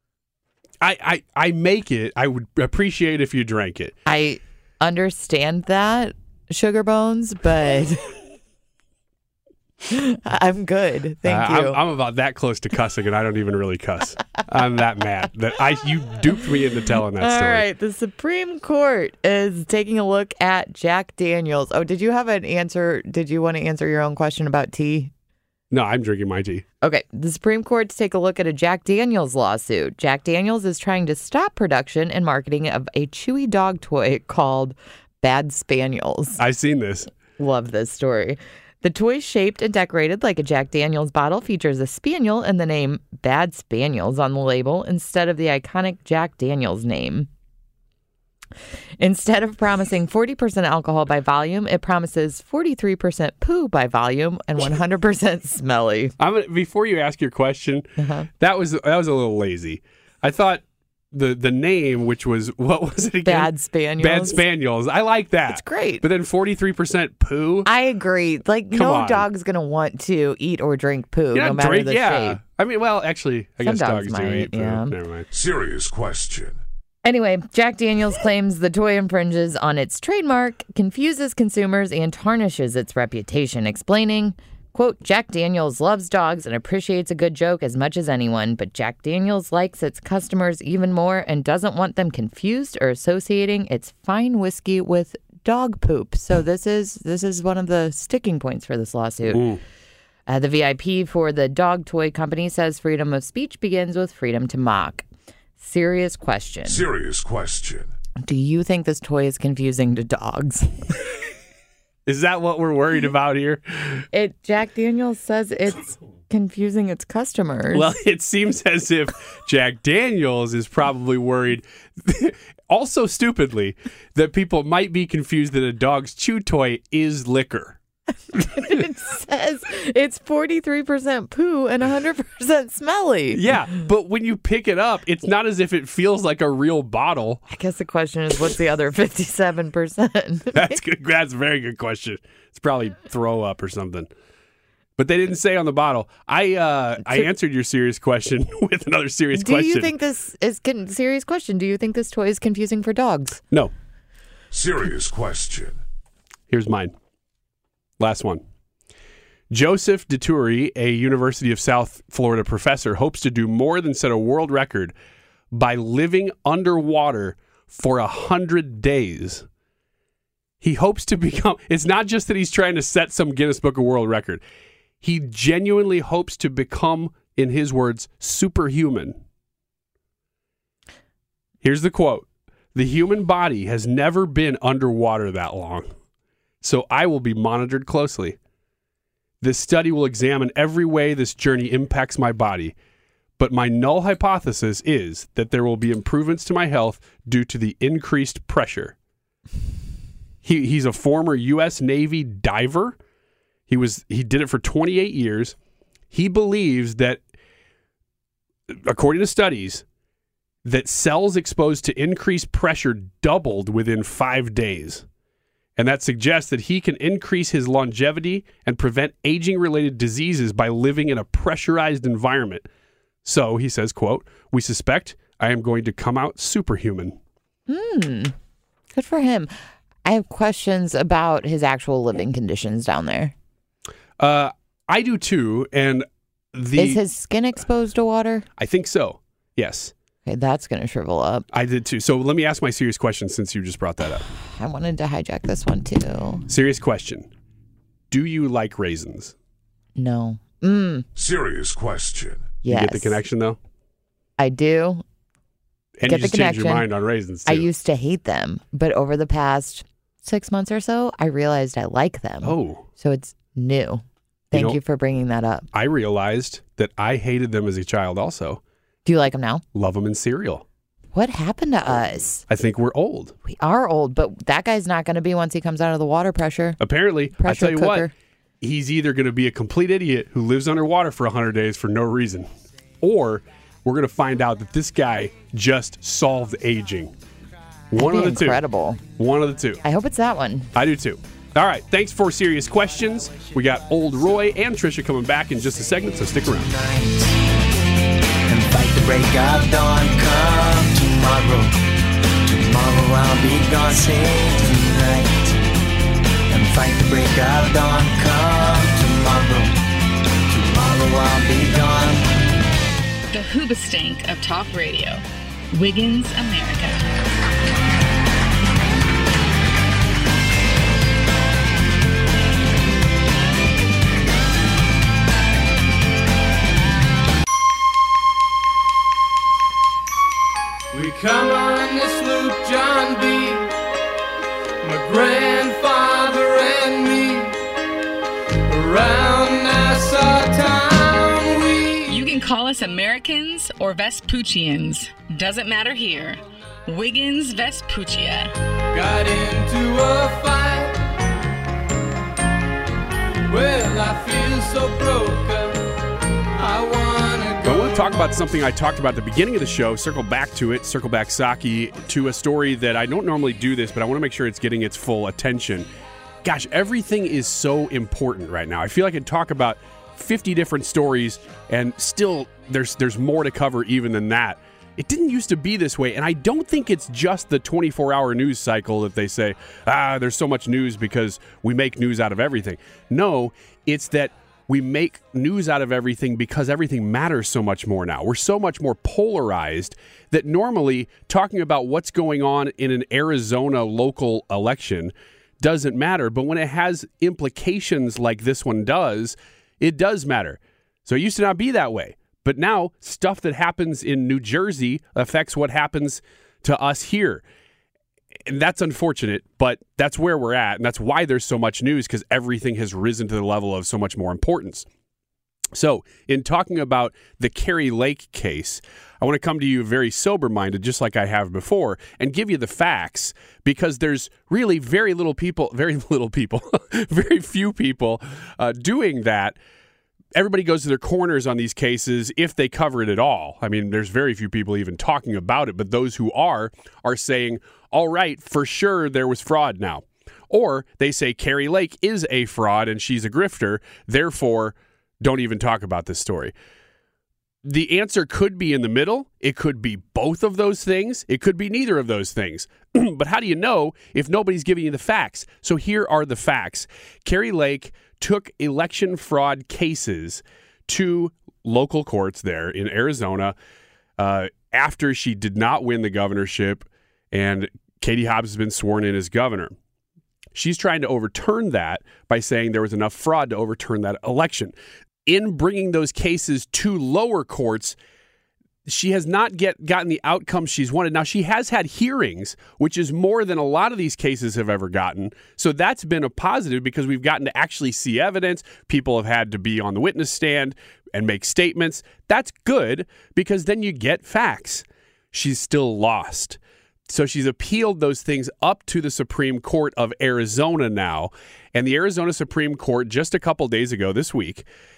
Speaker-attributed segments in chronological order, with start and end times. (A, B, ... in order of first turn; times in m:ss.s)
0:00.8-0:04.0 A
0:04.1-0:08.1 B
0:09.9-0:11.8 B
0:11.3-0:17.6 A
0:17.2-0:25.1 B
0:25.7-0:26.6 A
0:26.8-0:36.4 B
0:36.4-0:37.1 A
0:37.4-0:47.3 B
0:49.0-0:56.1 B
0:56.2-0:57.9 A
0:58.0-0:58.3 B
0:58.4-1:07.7 A
1:03.2-1:04.4 B
1:05.5-1:06.0 B
1:07.7-1:12.4 B
1:08.7-1:09.3 A
1:11.3-1:15.3 A
1:13.6-1:15.0 B
1:15.3-1:16.6 C
1:17.0-1:39.4 B
1:39.3-1:39.6 A
1:40.3-1:45.1 B
1:45.6-1:46.8 B
1:46.6-1:47.9 C
1:48.2-1:50.7 B
1:52.1-1:54.1 A
1:54.1-1:57.9 B
1:57.7-2:07.8 A
2:08.4-2:13.4 B
2:13.3-2:17.4 A
2:17.5-2:20.8 B
2:20.5-2:24.1 A
2:25.0-2:29.9 A
2:29.4-2:33.4 B
2:34.5-2:35.8 C
2:36.5-2:36.9 A
2:38.0-2:38.4 A
2:39.5-2:44.9 A
2:45.5-2:49.4 A
2:50.6-2:54.4 A
2:55.0-2:59.2 A
3:01.6-3:05.9 A
3:06.6-3:08.4 A
3:09.4-3:12.8 A
3:13.4-3:19.0 A
3:20.4-3:23.0 A
3:23.7-3:25.6 A
3:26.1-3:27.2 A
3:28.7-3:29.8 A
3:30.6-3:35.0 A
3:35.8-3:42.7 A
3:43.2-3:47.2 A
3:47.7-3:48.3 B
3:48.9-3:49.5 B
3:50.0-3:53.3 B
3:54.2-3:57.0 A
3:56.8-3:58.4 B
3:58.6-3:59.9 A
4:00.3-4:01.4 B
4:01.5-4:04.2 A
4:04.6-4:06.4 B
4:06.5-4:07.3 A
4:08.1-4:09.3 A
4:10.0-4:11.1 B
4:11.2-4:12.6 C
4:12.6-4:13.2 B
4:12.7-4:13.6 A
4:14.4-4:15.0 B
4:16.0-4:17.7 A
4:16.1-4:16.9 B
4:17.5-4:25.7 B
4:22.4-4:22.8 A
4:24.5-4:24.8 A
4:25.7-4:28.6 A
4:29.0-4:29.6 B
4:29.7-4:30.6 A
4:31.1-4:32.4 B
4:32.5-4:33.4 A
4:33.5-4:36.8 B
4:36.8-4:38.1 A
4:37.4-4:38.1 B
4:38.6-4:42.5 A
4:43.0-4:47.1 A
4:47.9-4:48.6 A
4:48.0-4:49.0 B
4:49.2-4:49.8 A
4:49.8-4:50.7 B
4:50.7-4:56.7 A
4:56.2-4:57.4 D
4:58.5-5:01.8 D
5:02.4-5:05.6 D
5:06.5-5:09.8 D
5:10.5-5:12.4 D
5:13.3-5:17.0 E
5:30.9-5:33.7 F
5:34.8-5:37.6 F
5:38.7-5:42.3 F
5:42.1-5:48.5 E
5:48.9-5:51.0 F
5:53.5-5:55.9 F
5:56.6-5:58.1 F
5:57.6-6:05.9 A
6:06.4-6:47.4 A
6:48.5-6:54.9 A
6:55.7-7:09.6 A
7:10.3-7:26.5 A
7:27.6-7:43.6 A
7:44.2-7:49.7 A
7:50.5-7:54.8 A
7:55.3-7:58.0 A
7:58.9-8:24.7 A